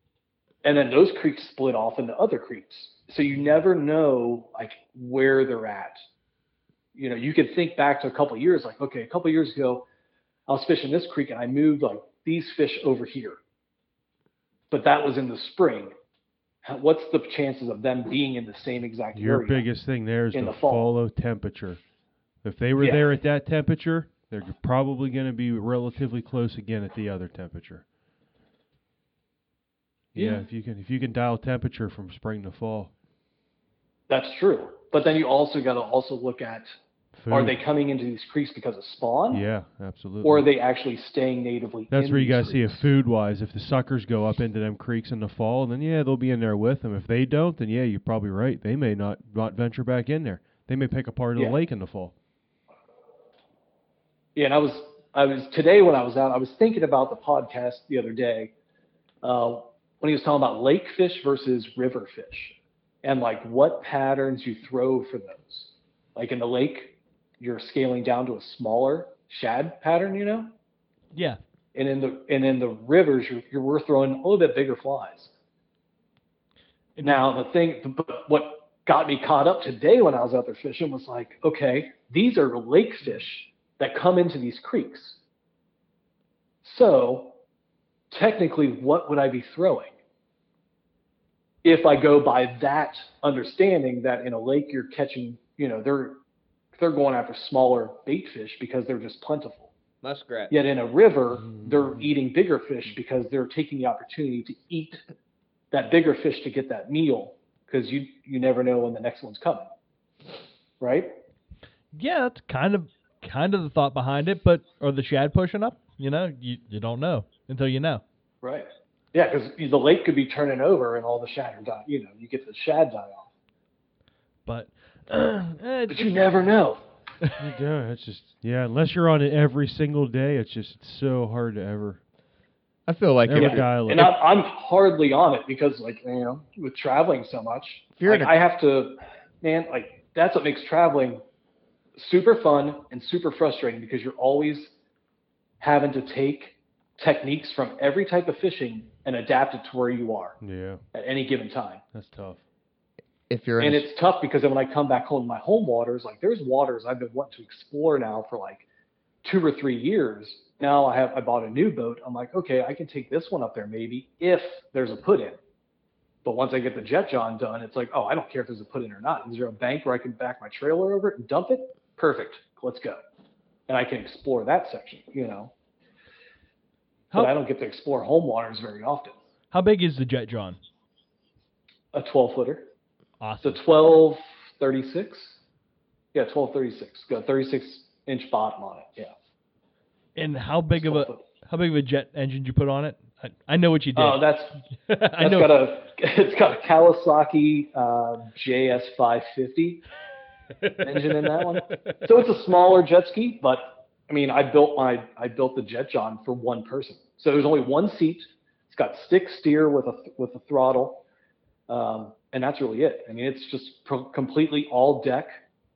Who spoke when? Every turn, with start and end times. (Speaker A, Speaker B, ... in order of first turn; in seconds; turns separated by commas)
Speaker A: 0.6-6.0, Speaker A: 6.9-9.8, Speaker A: 10.5-13.4, Speaker A: 14.7-15.9, Speaker A: 16.6-19.6, Speaker B: 19.1-21.8, Speaker A: 20.3-20.9, Speaker B: 22.4-27.8, Speaker A: 22.8-23.1, Speaker B: 30.1-32.9, Speaker A: 34.1-36.7, Speaker B: 37.2-37.6, Speaker A: 37.3-39.4, Speaker B: 39.3-40.5, Speaker A: 40.2-42.9, Speaker B: 41.9-52.1, Speaker A: 54.4-58.5, Speaker A: 59.2-70.5, Speaker C: 71.1-71.4, Speaker A: 71.7-75.3, Speaker C: 77.0-77.3, Speaker A: 77.0-85.2, Speaker A: 86.6-87.3, Speaker A: 88.1-90.0, Speaker A: 91.6-96.2, Speaker A: 96.7-99.7, Speaker D: 100.0-100.5, Speaker A: 100.5-105.0, Speaker B: 101.5-102.0, Speaker A: 105.7-109.7, Speaker A: 110.8-111.2, Speaker C: 111.9-118.0, Speaker A: 118.4-123.3, Speaker C: 124.5-126.5, Speaker A: 125.9-126.8, Speaker B: 127.4-132.0, Speaker D: 132.9-133.8, Speaker B: 133.3-134.1, Speaker A: 133.3-141.2, Speaker D: 138.0-138.3, Speaker A: 141.9-144.7, Speaker A: 145.6-150.4, Speaker B: 150.4-150.8, Speaker A: 150.9-151.8, Speaker B: 151.9-152.4, Speaker D: 153.3-153.9, Speaker A: 153.6-158.6, Speaker A: 159.2-165.4, Speaker A: 166.2-173.0, Speaker A: 173.7-175.5, Speaker A: 177.1-179.2, Speaker C: 179.5-180.6, Speaker A: 181.9-182.7, Speaker C: 183.2-183.6, Speaker A: 183.4-185.4, Speaker A: 186.1-189.1, Speaker C: 190.1-194.3, Speaker A: 190.7-191.2, Speaker A: 193.9-194.6, Speaker C: 194.8-195.5, Speaker A: 195.2-199.8, Speaker C: 200.6-202.0, Speaker A: 200.8-211.0, Speaker A: 211.7-215.4